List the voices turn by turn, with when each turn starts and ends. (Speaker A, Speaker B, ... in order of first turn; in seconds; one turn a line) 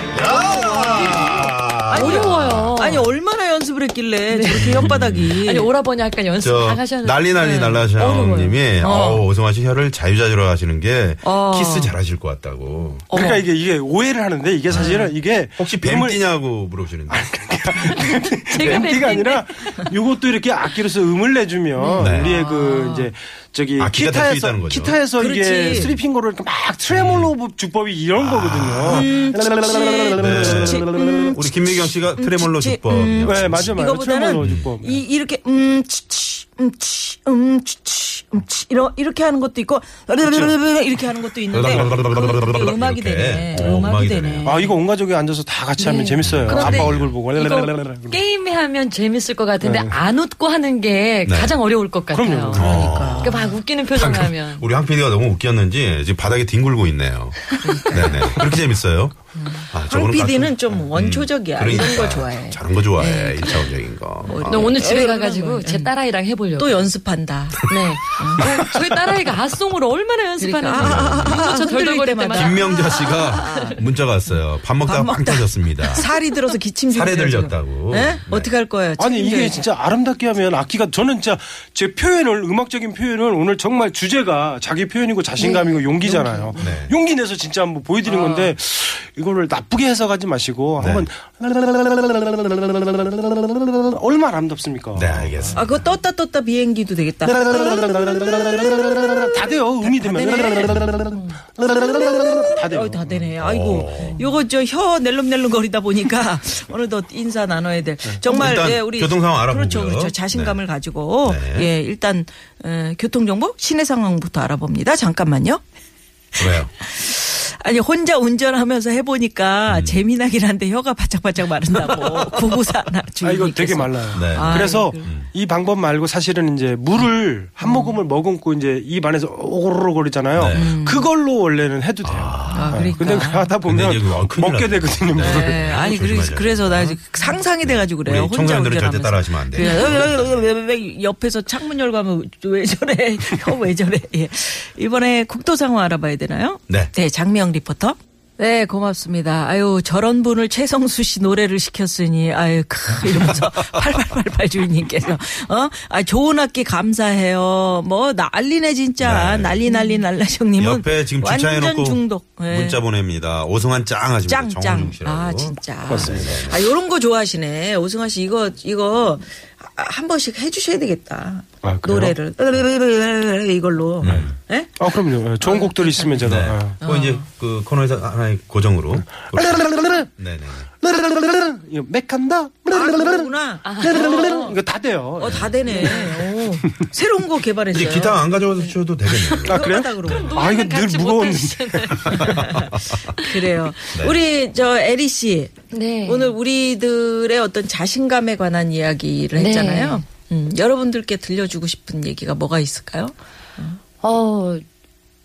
Speaker A: 0.1-3.0
Speaker B: 0.8-1.3
Speaker B: 1.9-5.7
Speaker C: 1.9-3.0
Speaker C: 4.3-4.9
Speaker A: 4.5-5.4
Speaker C: 5.4-8.6
Speaker A: 6.4-13.1
Speaker B: 7.4-8.0
Speaker B: 8.8-9.2
Speaker B: 11.2-11.9
Speaker B: 13.1-13.4
Speaker D: 13.1-16.2
Speaker B: 14.7-15.1
Speaker A: 15.6-17.3
Speaker D: 17.1-31.4
Speaker C: 18.0-19.4
Speaker A: 18.6-18.9
Speaker C: 21.8-22.0
Speaker B: 22.0-23.1
Speaker A: 22.0-22.4
Speaker A: 23.8-25.0
Speaker B: 25.1-26.0
Speaker A: 26.9-27.3
Speaker A: 28.2-29.1
Speaker B: 28.9-44.8
Speaker A: 30.2-33.8
Speaker D: 33.2-35.0
Speaker A: 34.4-34.7
Speaker D: 40.2-40.5
Speaker A: 41.5-44.5
Speaker D: 44.4-48.2
Speaker C: 45.8-46.2
Speaker A: 46.2-47.1
Speaker B: 46.5-47.0
Speaker C: 47.3-52.6
Speaker D: 49.6-50.0
Speaker A: 51.2-51.6
Speaker D: 52.1-52.8
Speaker A: 52.5-64.8
Speaker B: 52.5-53.6
Speaker C: 53.2-54.6
Speaker B: 57.6-58.5
Speaker B: 59.4-65.9
Speaker C: 64.5-66.9
Speaker B: 66.5-68.7
Speaker C: 67.7-73.6
Speaker B: 70.4-79.6
Speaker A: 70.8-71.5
Speaker A: 72.3-76.1
Speaker A: 76.9-78.5
Speaker D: 79.0-95.5
Speaker C: 85.4-86.6
Speaker A: 86.6-86.9
Speaker B: 88.1-88.5
Speaker A: 90.8-91.1
Speaker A: 95.0-95.6
Speaker B: 95.5-101.2
Speaker D: 97.3-103.3
Speaker B: 102.6-115.6
Speaker A: 103.4-104.2
Speaker A: 108.3-110.6
Speaker A: 111.2-111.7
Speaker B: 116.3-125.1
Speaker A: 116.4-116.7
Speaker A: 119.7-120.0
Speaker D: 123.2-135.7
Speaker A: 124.1-125.3
Speaker B: 127.6-128.0
Speaker A: 130.3-130.7
Speaker B: 130.5-131.1
Speaker A: 132.0-132.9
Speaker B: 132.5-133.6
Speaker A: 133.6-137.0
Speaker B: 135.1-162.8
Speaker A: 137.6-140.5
Speaker A: 159.0-159.6
Speaker C: 159.7-160.0
Speaker A: 160.6-166.6
Speaker B: 164.3-177.2
Speaker D: 165.9-166.4
Speaker D: 171.6-172.2
Speaker A: 174.0-174.3
Speaker D: 174.8-176.8
Speaker A: 176.2-180.7
Speaker D: 179.3-180.1
Speaker D: 180.8-186.3
Speaker B: 182.7-184.6
Speaker C: 183.6-184.4
Speaker B: 185.2-188.7
Speaker A: 185.2-185.6
Speaker A: 187.7-189.7
Speaker D: 189.4-192.3
Speaker B: 189.5-190.4
Speaker C: 190.1-192.5
Speaker A: 192.1-193.0
Speaker B: 192.1-203.8
Speaker C: 195.7-196.3
Speaker C: 199.3-200.0
Speaker C: 204.0-204.6